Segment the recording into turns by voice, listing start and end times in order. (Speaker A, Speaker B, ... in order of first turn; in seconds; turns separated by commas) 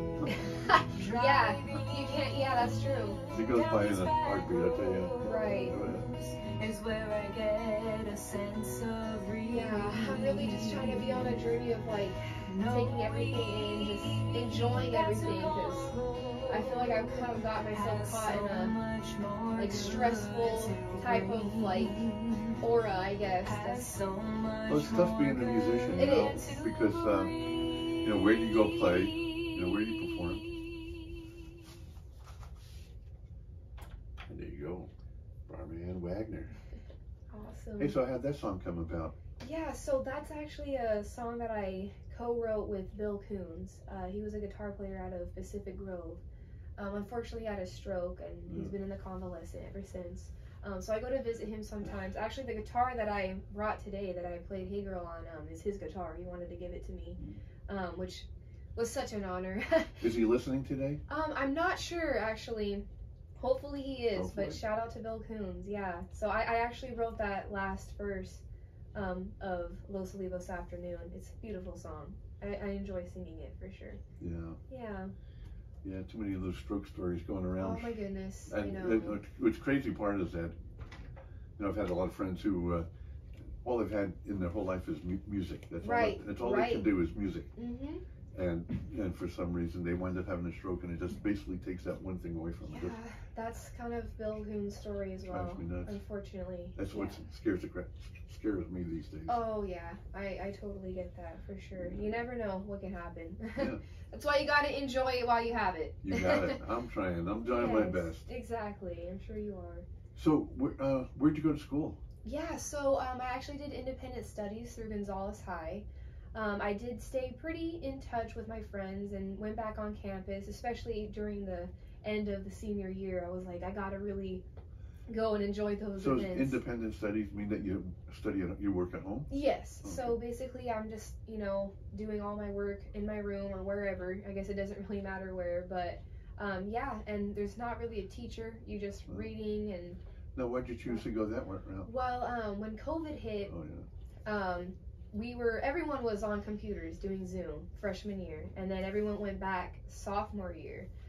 Speaker A: 0.3-3.2, Speaker B: 0.9-11.3, Speaker C: 3.3-6.0, Speaker A: 5.2-5.8, Speaker A: 9.5-15.9, Speaker B: 12.4-22.6, Speaker A: 16.5-18.8, Speaker A: 19.6-22.0, Speaker A: 22.6-23.9, Speaker B: 23.4-31.3, Speaker C: 24.7-27.3, Speaker A: 25.9-26.4, Speaker C: 28.0-30.4, Speaker C: 34.3-34.9, Speaker C: 35.5-36.6, Speaker A: 37.3-38.0, Speaker C: 37.8-39.1, Speaker A: 39.4-46.2, Speaker A: 46.8-60.0, Speaker C: 48.5-48.7, Speaker C: 60.0-61.0, Speaker A: 61.1-62.8, Speaker A: 63.4-68.4, Speaker C: 64.1-64.6, Speaker A: 68.9-74.0, Speaker C: 74.2-74.6, Speaker A: 74.7-75.1, Speaker C: 75.8-77.9, Speaker A: 77.6-79.2, Speaker C: 78.5-80.5, Speaker C: 81.6-82.9, Speaker C: 83.6-87.5, Speaker A: 85.8-86.9, Speaker A: 87.5-88.0, Speaker C: 88.3-92.9, Speaker A: 92.6-97.2, Speaker C: 95.3-96.0, Speaker C: 96.7-99.4, Speaker A: 99.3-106.6, Speaker C: 101.8-102.2, Speaker C: 103.5-103.8, Speaker C: 106.0-108.2, Speaker A: 107.4-109.9, Speaker C: 110.1-112.0, Speaker A: 112.2-124.4, Speaker A: 125.1-126.6, Speaker C: 126.0-129.3, Speaker A: 129.3-140.0, Speaker C: 129.8-130.2, Speaker C: 140.3-141.9, Speaker A: 141.8-143.5, Speaker C: 143.5-143.9, Speaker A: 144.2-150.9